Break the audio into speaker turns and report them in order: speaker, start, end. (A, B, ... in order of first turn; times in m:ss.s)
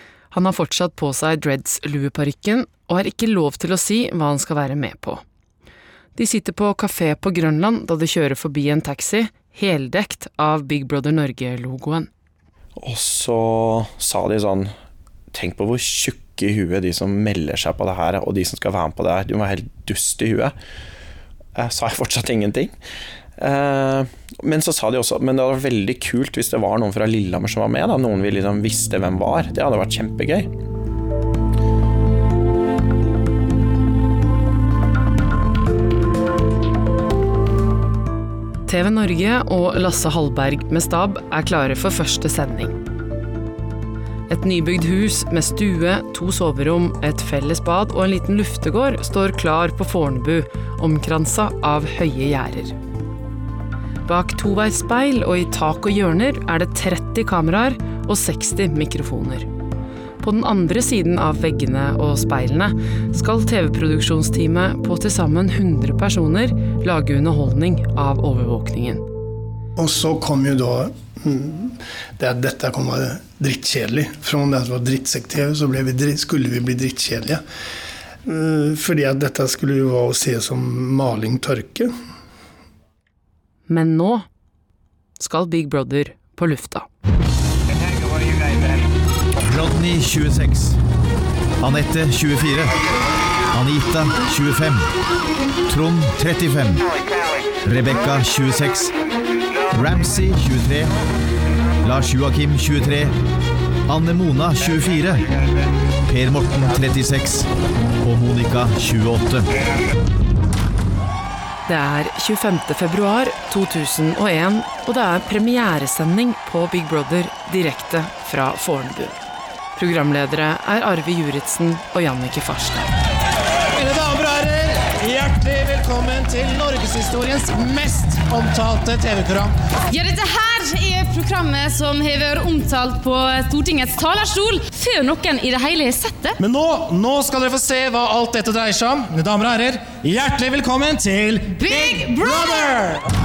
0:00.3-0:05.2 A
0:06.2-0:12.1 A
0:12.8-0:14.7 B
0:15.3-0:20.5 B
0:21.5-0:22.7 B
0:23.4-0:30.5 B
0:38.7-0:42.8 A
0:44.3-0:52.7 A
0:54.0-0:59.5 A
1:00.2-1:09.0 A
1:09.8-1:17.4 C
1:18.2-1:21.9 C
1:23.7-1:24.3 A
1:25.2-1:26.9 A
1:29.4-1:30.8 D
1:31.6-1:32.8 D
1:33.5-1:34.8 D
1:35.7-1:36.8 D
1:37.6-1:38.9 D
1:39.7-1:40.9 D
1:41.8-1:43.1 D
1:43.9-1:45.2 D
1:46.1-1:47.4 D
1:48.0-1:49.5 D
1:51.7-1:59.2 A
1:59.8-2:02.9 A
2:03.7-2:09.5 E
2:09.9-2:16.4 F
2:16.4-2:23.1 E
2:21.5-2:22.7 F